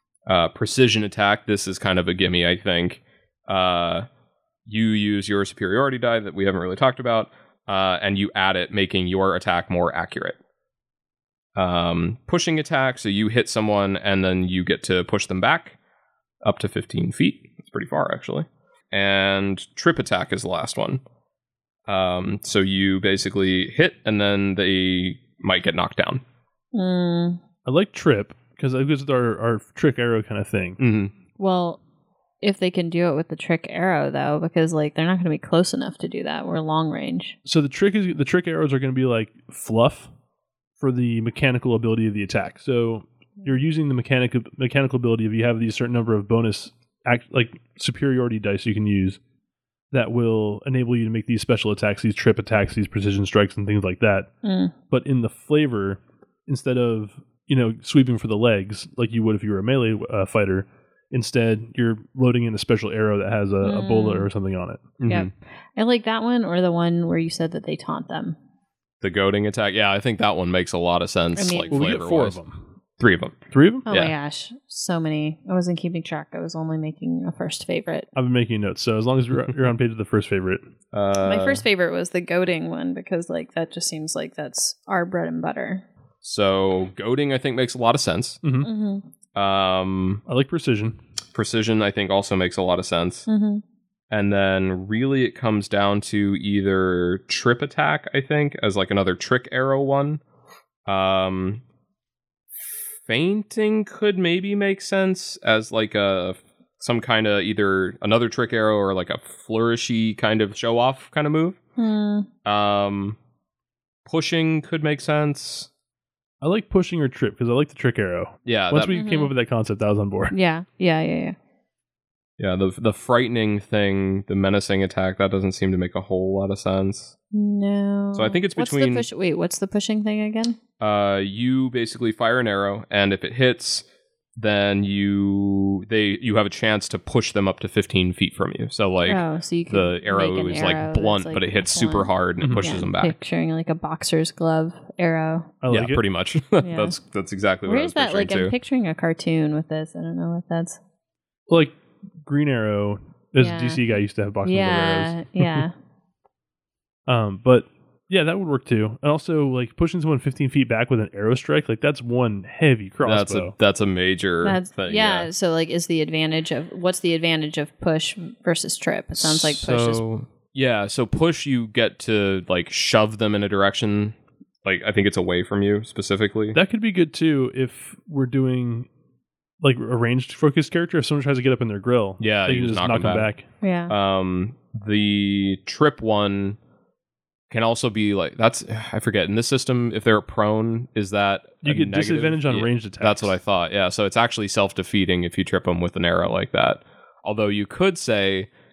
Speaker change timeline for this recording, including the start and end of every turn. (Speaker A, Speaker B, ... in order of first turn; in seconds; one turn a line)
Speaker A: 0.3-4.1
Speaker A: 4.7-10.4
Speaker A: 11.6-15.8
Speaker A: 16.4-21.0
Speaker A: 21.9-26.2
Speaker B: 26.7-27.4
Speaker C: 27.6-30.8
Speaker A: 30.8-31.1
Speaker B: 31.4-31.8
Speaker B: 32.4-37.4
Speaker C: 37.4-40.1
Speaker C: 40.8-49.2
Speaker C: 49.9-54.3
Speaker B: 54.4-54.7
Speaker C: 54.9-64.9
Speaker B: 63.6-64.3
Speaker A: 65.0-65.3
Speaker B: 65.1-68.4
Speaker A: 69.0-72.4
Speaker B: 71.3-71.8
Speaker C: 71.7-72.6
Speaker A: 73.0-73.4
Speaker C: 73.5-73.9
Speaker B: 73.8-78.1
Speaker A: 73.9-74.1
Speaker C: 78.1-80.6
Speaker A: 80.9-81.6
Speaker B: 81.2-85.8
Speaker A: 86.2-88.4
Speaker C: 88.4-88.7
Speaker B: 88.6-89.0
Speaker A: 89.3-90.2
Speaker C: 90.3-91.0
Speaker A: 91.3-93.2
Speaker B: 93.3-93.6
Speaker A: 94.1-100.2
Speaker A: 100.8-101.6
Speaker A: 103.0-111.6
Speaker B: 111.8-112.3
Speaker A: 112.4-113.2
Speaker A: 114.0-115.7
Speaker C: 116.4-120.3
Speaker A: 118.5-119.0
Speaker B: 118.9-119.3
Speaker B: 120.3-121.3
Speaker A: 122.4-127.1
Speaker B: 127.3-130.6
Speaker A: 128.1-129.1
Speaker A: 130.8-143.1
Speaker B: 139.1-145.5
Speaker C: 142.4-142.8
Speaker C: 145.6-146.0
Speaker A: 145.7-148.5
Speaker B: 146.6-146.9
Speaker B: 147.7-150.8
Speaker C: 151.5-155.6
Speaker B: 153.4-153.8
Speaker B: 154.4-155.7
Speaker C: 157.1-163.5
Speaker A: 163.0-165.3
Speaker B: 164.4-170.0
Speaker A: 169.2-176.6
Speaker C: 176.5-178.9
Speaker C: 179.6-183.4
Speaker A: 182.2-183.3
Speaker B: 183.6-183.9
Speaker A: 183.9-186.6
Speaker A: 187.5-198.5
Speaker C: 191.6-193.3